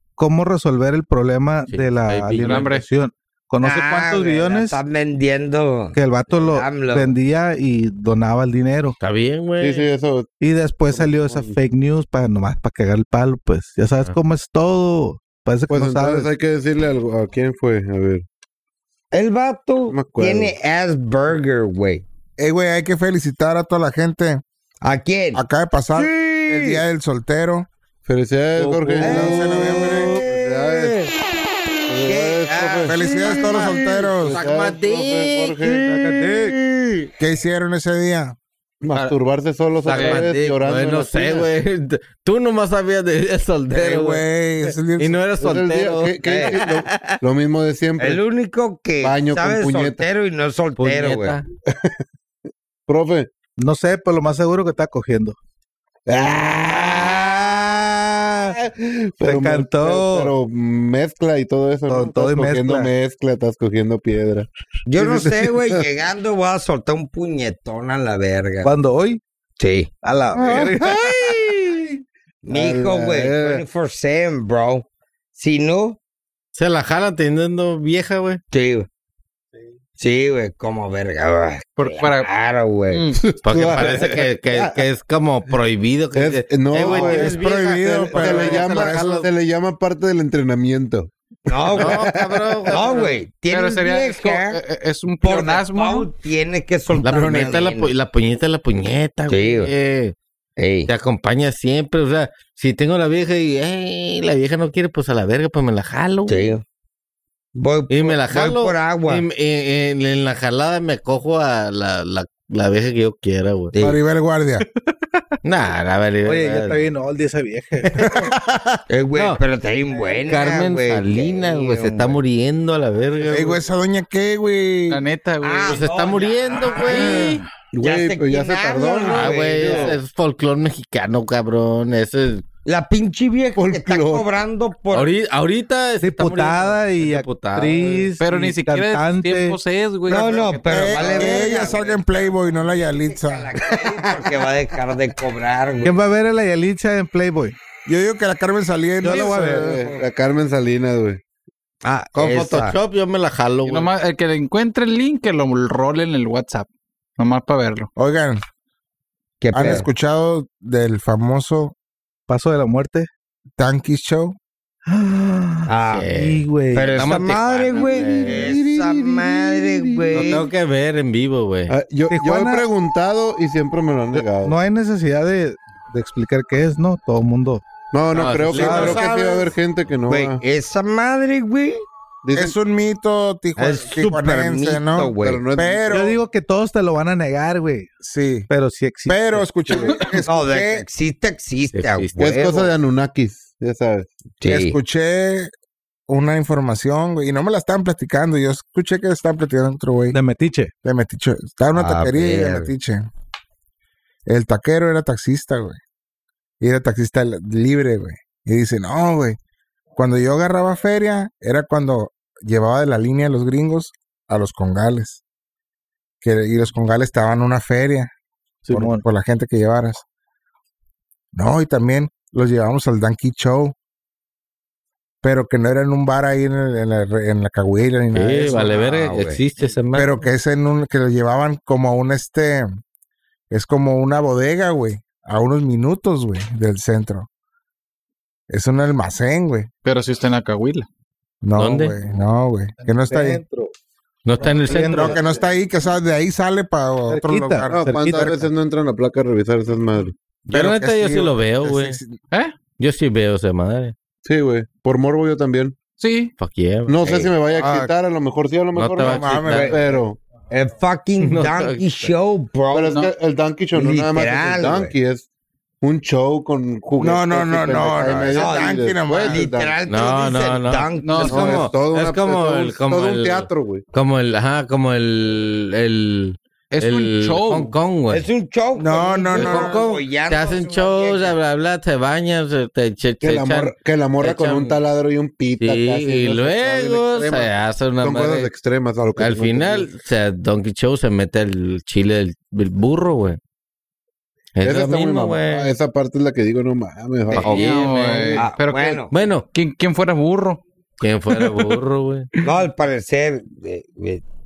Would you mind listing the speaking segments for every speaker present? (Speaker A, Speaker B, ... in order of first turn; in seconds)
Speaker A: 0.2-4.8, 5.9-9.0, 10.4-16.3, 35.7-36.5, 53.6-55.4, 59.2-60.4, 61.9-62.9, 68.6-69.2, 70.0-71.1, 116.2-118.0, 136.0-139.6, 145.8-147.6, 149.0-149.8, 162.3-163.1, 164.9-167.0, 172.1-172.7, 174.2-177.6, 178.5-179.0, 185.9-187.9, 188.5-189.7, 200.1-200.7, 218.7-219.0, 243.1-243.7, 244.4-245.3, 247.1-248.2
Speaker B: 1.7-2.7, 9.0-9.9, 28.6-29.1, 32.5-36.5, 39.8-44.2, 45.0-46.9, 50.8-51.5, 76.5-78.4, 82.9-89.2, 91.7-93.2, 97.0-100.2, 100.9-106.5, 107.9-113.7, 115.4-116.8, 119.2-119.4, 120.3-123.6, 125.7-127.4, 129.0-132.4, 134.9-138.1, 152.2-153.9, 165.9-168.6, 170.1-171.8, 178.1-179.2, 191.7-192.5, 228.1-230.2, 241.6-242.0, 244.2-245.2, 250.5-252.0, 252.8-253.9, 256.4-257.3, 258.7-259.7, 261.2-262.1, 269.9-278.2, 279.4-284.8, 285.6-288.5, 289.2-293.4, 294.6-295.7, 297.3-298.2, 299.1-299.5, 301.0-302.3
Speaker C: 2.4-2.9, 39.9-40.3, 81.8-82.3, 93.5-96.1, 124.9-125.8, 138.2-141.2, 153.7-157.9, 239.8-240.9, 256.0-256.3, 271.0-271.5, 276.7-277.7, 297.3-299.0, 299.5-300.6, 301.3-301.8
Speaker D: 3.6-7.1, 19.1-22.1, 24.8-25.4, 25.9-26.8, 29.0-31.1, 32.0-34.0, 36.5-37.1, 46.2-46.6, 48.0-51.4, 64.9-68.7, 69.6-69.9, 72.4-76.0, 78.5-78.9, 80.0-83.1, 86.7-87.3, 91.5-92.1, 92.7-94.6, 95.2-97.9, 99.3-99.7, 100.6-100.9, 106.3-106.6, 107.5-109.3, 113.7-114.0, 118.9-122.2, 125.4-130.0, 132.7-135.1, 140.1-145.9, 149.6-150.0, 151.8-152.8, 159.4-159.9, 165.7-166.1, 166.7-170.5, 180.1-181.8, 183.6-185.4, 190.2-192.7, 194.4-194.8, 201.8-202.7, 228.7-229.4, 259.4-259.9, 260.5-263.0, 263.8-264.9, 268.3-271.7, 278.1-281.4, 298.4-299.1, 302.4-304.2
Speaker E: 9.6-10.3, 10.9-11.6, 15.7-18.3, 19.9-20.6, 28.1-30.9, 31.9-35.9, 38.8-41.5, 45.4-48.2, 49.0-50.0, 51.7-52.0, 52.9-53.3, 56.1-57.8, 58.5-65.9, 70.3-73.6, 83.1-84.8, 86.2-93.0, 127.7-130.0, 133.6-134.3, 149.1-151.2, 168.1-170.4, 171.7-174.6, 177.9-180.4, 182.2-182.6, 185.2-186.1, 189.7-190.0, 192.2-194.1, 247.7-250.2, 254.2-255.8, 256.9-260.2, 262.7-265.3, 265.8-269.7, 271.3-273.8, 283.2-289.9, 294.6-298.4
Speaker F: 22.4-24.4, 25.4-27.7, 29.0-30.2, 32.9-34.4, 37.2-38.4, 43.7-45.2, 87.0-89.3, 113.8-114.7, 118.0-118.8, 123.3-125.0, 140.7-143.5, 147.9-149.6, 158.0-158.4, 159.5-161.7, 163.6-164.4, 178.5-179.5, 182.3-186.2, 188.0-188.5, 189.1-190.8, 194.5-195.5, 196.1-200.2, 200.8-203.1, 204.3-205.8, 206.6-209.4, 209.9-215.2, 216.2-218.1, 218.7-220.0, 221.3-223.8, 225.2-228.8, 229.9-232.8, 233.5-237.3, 238.5-239.7, 241.4-243.4, 244.8-248.5, 250.5-252.2, 257.6-257.9, 259.0-259.7, 267.0-269.4, 278.8-279.8